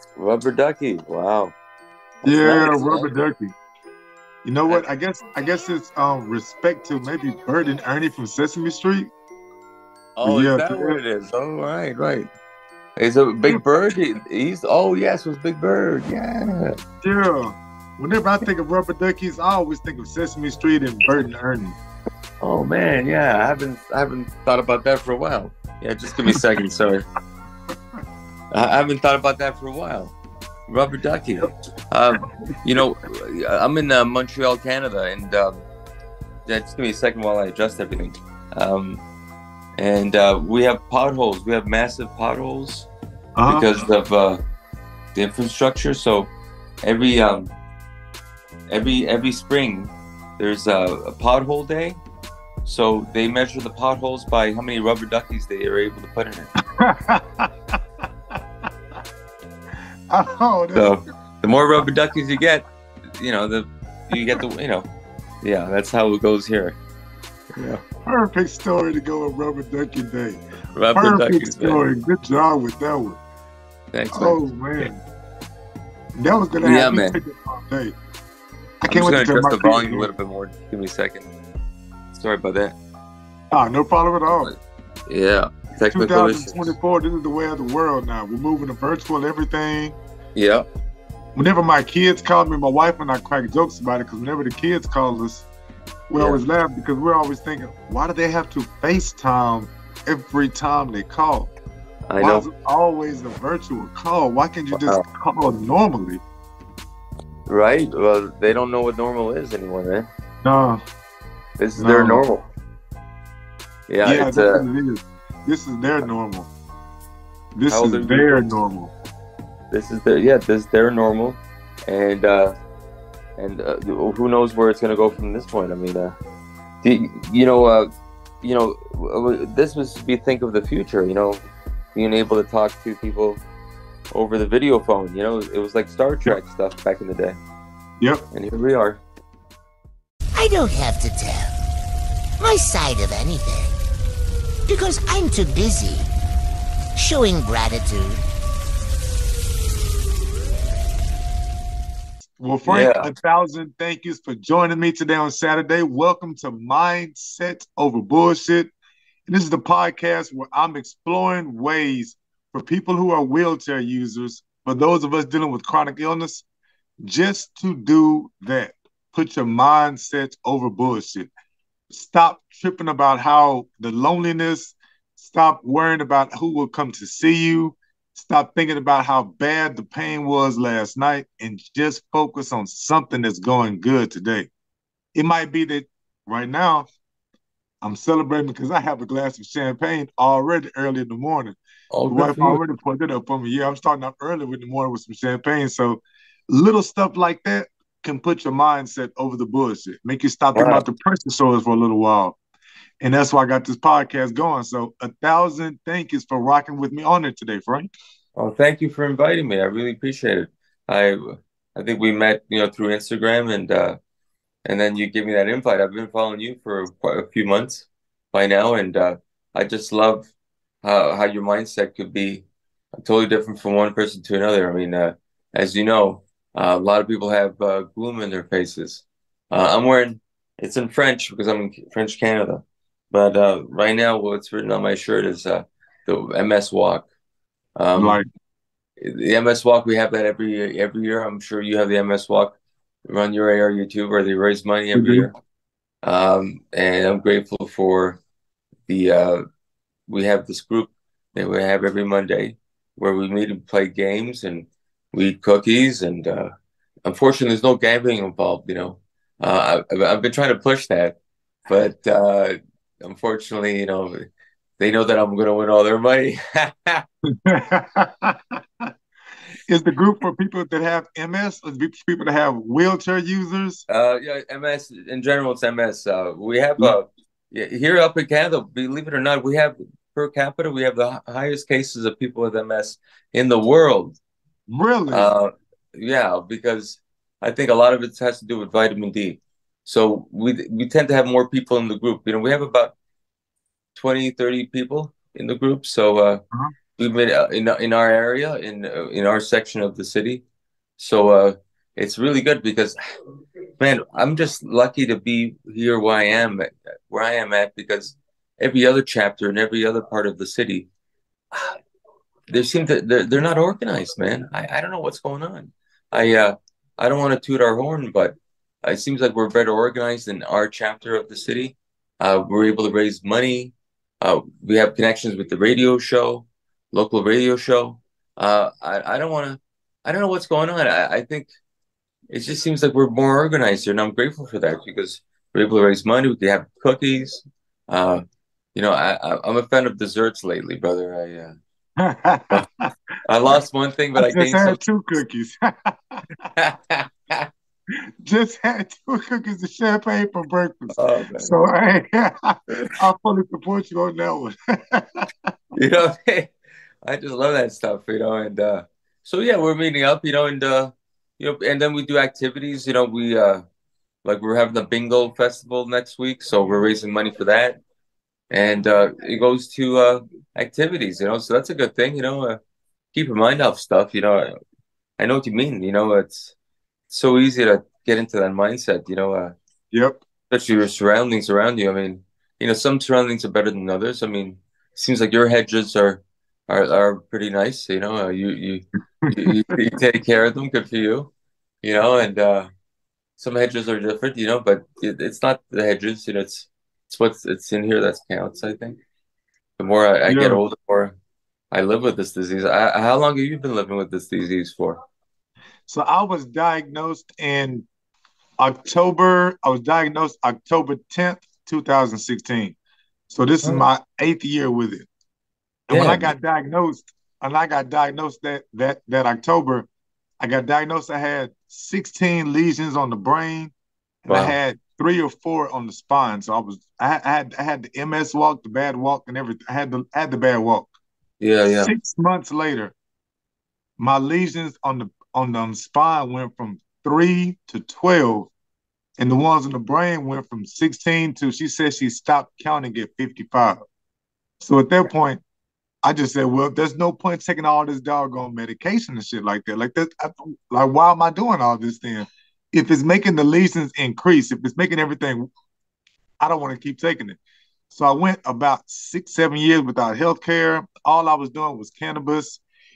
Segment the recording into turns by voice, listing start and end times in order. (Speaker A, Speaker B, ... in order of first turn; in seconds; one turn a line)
Speaker A: 0.1-1.5
Speaker B: 2.2-3.5
Speaker A: 2.2-3.1
Speaker B: 4.4-9.1
Speaker A: 10.2-12.3
Speaker B: 10.2-11.0
Speaker A: 13.0-16.8
Speaker B: 17.0-21.8
Speaker A: 22.4-27.1
Speaker A: 28.5-30.1
Speaker A: 30.7-35.6
Speaker A: 36.5-39.0
Speaker A: 39.8-42.9
Speaker B: 43.4-43.7
Speaker A: 43.5-44.4
Speaker A: 45.1-46.3
Speaker A: 46.8-47.5
Speaker A: 48.7-52.0
Speaker A: 52.6-56.5
Speaker B: 56.7-57.5
Speaker B: 60.1-60.9
Speaker A: 60.7-62.6
Speaker A: 63.2-64.9
Speaker A: 65.4-66.8
Speaker B: 67.6-70.4
Speaker A: 70.8-71.8
Speaker B: 70.9-73.2
Speaker A: 73.9-74.4
Speaker B: 74.1-75.0
Speaker B: 76.1-77.9
Speaker A: 76.6-77.2
Speaker B: 78.8-80.1
Speaker A: 78.9-81.3
Speaker A: 82.1-82.8
Speaker B: 83.5-84.5
Speaker A: 84.3-86.7
Speaker B: 85.9-90.0
Speaker A: 90.3-90.7
Speaker B: 91.3-95.5
Speaker B: 96.1-101.5
Speaker A: 102.1-102.5
Speaker B: 102.2-106.2
Speaker A: 104.7-105.0
Speaker A: 107.5-110.1
Speaker B: 110.4-110.8
Speaker A: 111.6-112.4
Speaker B: 111.8-112.2
Speaker A: 113.9-114.6
Speaker B: 114.0-116.5
Speaker B: 117.5-118.9
Speaker A: 117.7-118.5
Speaker A: 119.7-122.5
Speaker A: 123.4-126.2
Speaker A: 126.8-127.9
Speaker A: 128.4-133.4
Speaker A: 134.1-137.4
Speaker A: 138.3-139.0
Speaker C: 140.3-141.5
Speaker C: 142.4-143.7
Speaker C: 144.7-146.1
Speaker C: 146.9-148.2
Speaker B: 152.4-158.7
Speaker A: 152.6-153.1
Speaker B: 159.3-166.4
Speaker B: 167.0-171.3
Speaker B: 171.9-184.5
Speaker B: 185.1-186.9
Speaker B: 187.8-191.6
Speaker A: 191.9-192.6
Speaker B: 192.1-202.4
Speaker A: 200.5-200.8
Speaker B: 203.0-207.9
Speaker A: 208.3-214.0
Speaker A: 214.6-220.3
Speaker A: 220.8-222.4
Speaker A: 223.0-237.1
Speaker A: 237.8-238.2
Speaker B: 237.9-238.2
Speaker A: 239.0-242.6
Speaker A: 243.1-245.3
Speaker B: 244.9-245.3
Speaker A: 246.0-248.2
Speaker A: 248.9-249.4
Speaker A: 250.1-256.5
Speaker A: 257.0-261.2
Speaker A: 261.7-264.2
Speaker A: 264.8-267.1
Speaker B: 267.3-268.6
Speaker B: 269.7-273.8
Speaker A: 273.9-284.2
Speaker B: 284.7-285.3
Speaker A: 285.1-292.9
Speaker A: 293.9-296.4
Speaker A: 297.0-300.4
Speaker A: 301.0-303.0
Speaker A: 303.8-310.9
Speaker A: 312.5-331.5
Speaker A: 332.3-338.2
Speaker A: 338.7-341.5
Speaker B: 342.0-342.9
Speaker A: 343.2-344.8
Speaker B: 344.2-346.2
Speaker A: 346.6-347.5
Speaker B: 348.2-355.5
Speaker A: 350.9-351.5
Speaker A: 355.7-356.5
Speaker A: 357.0-363.6
Speaker A: 364.2-367.8
Speaker A: 368.5-372.6
Speaker A: 373.1-374.5
Speaker A: 375.2-376.5
Speaker A: 377.1-379.5
Speaker B: 379.9-380.2
Speaker A: 380.5-391.3
Speaker B: 389.2-389.8
Speaker A: 391.8-392.7
Speaker A: 393.4-399.0
Speaker A: 399.8-401.1
Speaker B: 400.3-400.6
Speaker A: 401.7-405.0
Speaker B: 405.9-407.8
Speaker B: 408.6-412.8
Speaker B: 413.3-415.1
Speaker B: 415.9-419.9
Speaker A: 415.9-416.3
Speaker B: 420.4-423.7
Speaker B: 424.2-430.9
Speaker A: 424.3-424.6
Speaker A: 431.4-431.9
Speaker B: 431.7-432.9
Speaker B: 434.0-438.5
Speaker B: 439.2-443.8
Speaker B: 444.6-445.4
Speaker B: 446.0-455.5
Speaker B: 456.4-457.4
Speaker B: 457.9-462.6